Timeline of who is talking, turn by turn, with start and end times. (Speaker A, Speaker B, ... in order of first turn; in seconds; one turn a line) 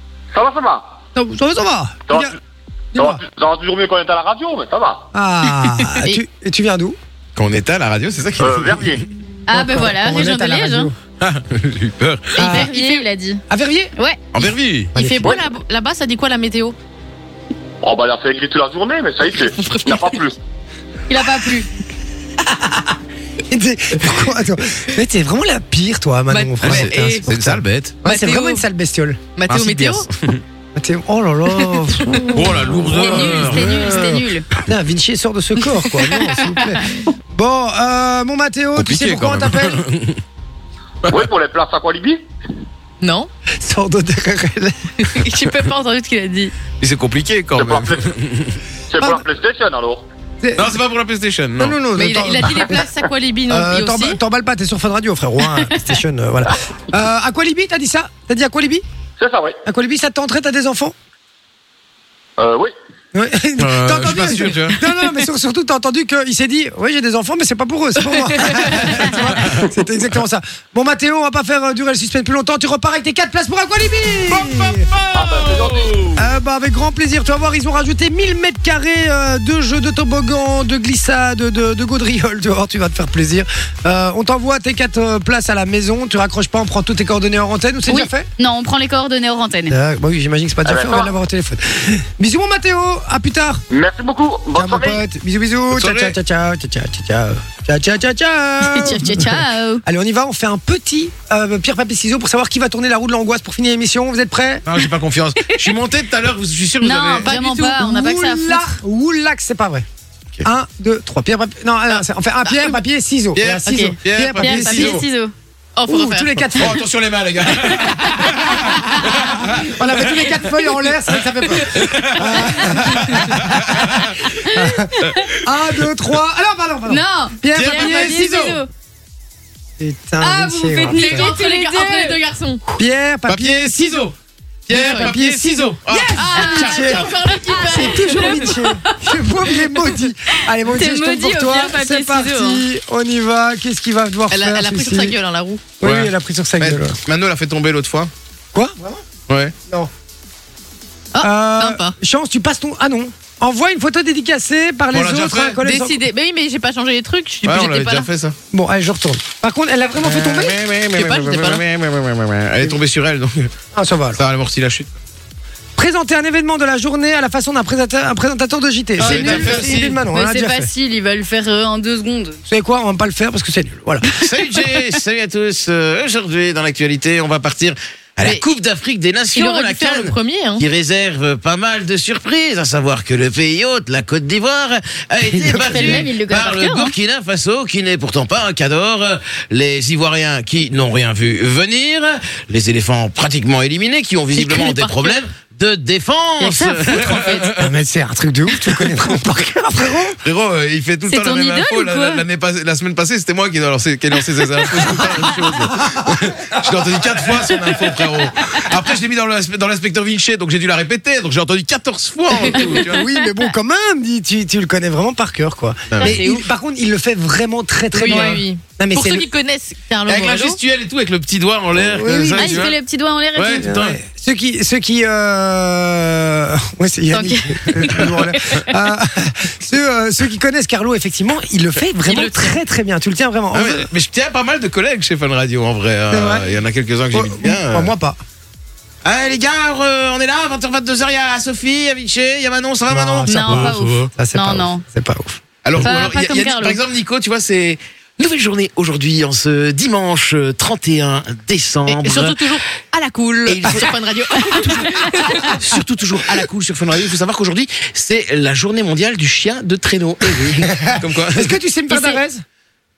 Speaker A: 0.3-1.0
Speaker B: 1.1-2.3
Speaker B: 2.9-3.2
Speaker A: 3.0-5.1
Speaker B: 5.1-7.0
Speaker C: 7.3-8.9
Speaker A: 8.4-9.0
Speaker D: 9.5-10.9
Speaker B: 9.5-10.9
Speaker C: 11.2-12.3
Speaker D: 12.3-13.4
Speaker E: 12.4-13.0
Speaker B: 12.4-12.7
Speaker B: 13.5-13.9
Speaker D: 13.9-14.2
Speaker C: 14.3-14.9
Speaker B: 14.9-15.4
Speaker E: 14.9-16.8
Speaker A: 17.8-20.4
Speaker E: 19.5-20.2
Speaker D: 21.1-21.7
Speaker B: 22.4-23.0
Speaker B: 23.5-29.3
Speaker E: 26.3-27.2
Speaker C: 26.6-27.9
Speaker E: 28.0-28.6
Speaker E: 29.4-30.1
Speaker C: 29.5-30.4
Speaker B: 30.7-39.8
Speaker E: 31.7-33.5
Speaker C: 32.3-33.7
Speaker D: 32.9-34.5
Speaker E: 35.7-36.9
Speaker C: 38.8-40.2
Speaker A: 41.1-42.2
Speaker E: 43.0-43.3
Speaker B: 43.6-45.3
Speaker E: 45.0-46.5
Speaker C: 46.8-48.6
Speaker A: 47.5-48.1
Speaker A: 48.9-50.0
Speaker B: 50.4-50.8
Speaker C: 50.5-51.8
Speaker B: 51.6-52.9
Speaker E: 51.9-54.2
Speaker B: 53.5-58.8
Speaker A: 59.2-59.6
Speaker B: 59.6-60.9
Speaker A: 62.4-62.7
Speaker B: 63.1-74.9
Speaker C: 63.6-64.8
Speaker C: 68.8-69.6
Speaker C: 74.3-76.1
Speaker A: 75.1-76.2
Speaker B: 76.2-88.3
Speaker D: 87.9-89.7
Speaker B: 89.7-93.6
Speaker A: 90.6-91.1
Speaker A: 93.7-95.0
Speaker B: 94.5-104.6
Speaker C: 95.7-96.1
Speaker D: 98.6-99.8
Speaker C: 104.7-107.3
Speaker D: 106.8-108.8
Speaker E: 107.2-107.7
Speaker B: 107.5-109.8
Speaker B: 110.4-115.0
Speaker C: 113.3-115.0
Speaker D: 113.6-115.3
Speaker E: 115.8-116.5
Speaker B: 115.8-116.8
Speaker C: 116.5-124.2
Speaker B: 119.4-128.6
Speaker D: 124.2-125.3
Speaker C: 125.0-125.3
Speaker D: 126.9-128.7
Speaker C: 127.5-128.6
Speaker B: 129.8-131.3
Speaker D: 130.2-132.2
Speaker E: 130.7-132.6
Speaker B: 132.8-133.8
Speaker C: 133.3-134.1
Speaker C: 134.7-137.3
Speaker E: 134.7-135.1
Speaker B: 134.7-145.2
Speaker E: 136.1-138.6
Speaker D: 137.4-138.9
Speaker D: 140.6-142.6
Speaker E: 144.3-145.7
Speaker B: 145.8-147.0
Speaker C: 145.8-148.1
Speaker B: 148.5-149.0
Speaker C: 149.3-149.5
Speaker E: 151.1-151.9
Speaker B: 151.2-156.0
Speaker C: 154.9-155.6
Speaker E: 155.6-158.1
Speaker C: 157.4-158.3
Speaker B: 158.5-160.6
Speaker C: 160.0-163.5
Speaker E: 160.9-161.7
Speaker B: 163.7-164.2
Speaker C: 164.1-164.9
Speaker B: 165.8-170.7
Speaker C: 169.0-170.0
Speaker D: 169.1-172.4
Speaker B: 172.5-174.3
Speaker C: 174.1-197.7
Speaker E: 179.3-180.6
Speaker B: 185.2-186.0
Speaker D: 185.7-186.9
Speaker E: 194.3-195.2
Speaker D: 196.4-197.5
Speaker B: 197.4-200.2
Speaker C: 200.2-213.0
Speaker D: 201.1-202.2
Speaker B: 205.8-207.7
Speaker B: 212.5-219.3
Speaker C: 215.9-216.2
Speaker D: 216.0-216.4
Speaker E: 217.9-220.6
Speaker D: 218.0-218.4
Speaker C: 220.1-222.8
Speaker B: 221.7-222.7
Speaker D: 222.4-223.7
Speaker C: 223.3-224.0
Speaker B: 223.6-233.9
Speaker D: 227.1-227.9
Speaker C: 228.0-228.4
Speaker E: 232.1-232.6
Speaker C: 233.5-237.9
Speaker B: 236.1-236.5
Speaker B: 237.1-238.2
Speaker C: 239.0-244.1
Speaker B: 242.9-245.4
Speaker D: 243.3-244.8
Speaker C: 245.6-252.4
Speaker D: 245.8-246.8
Speaker E: 251.9-255.6
Speaker C: 253.4-261.6
Speaker B: 260.6-262.4
Speaker D: 261.9-262.2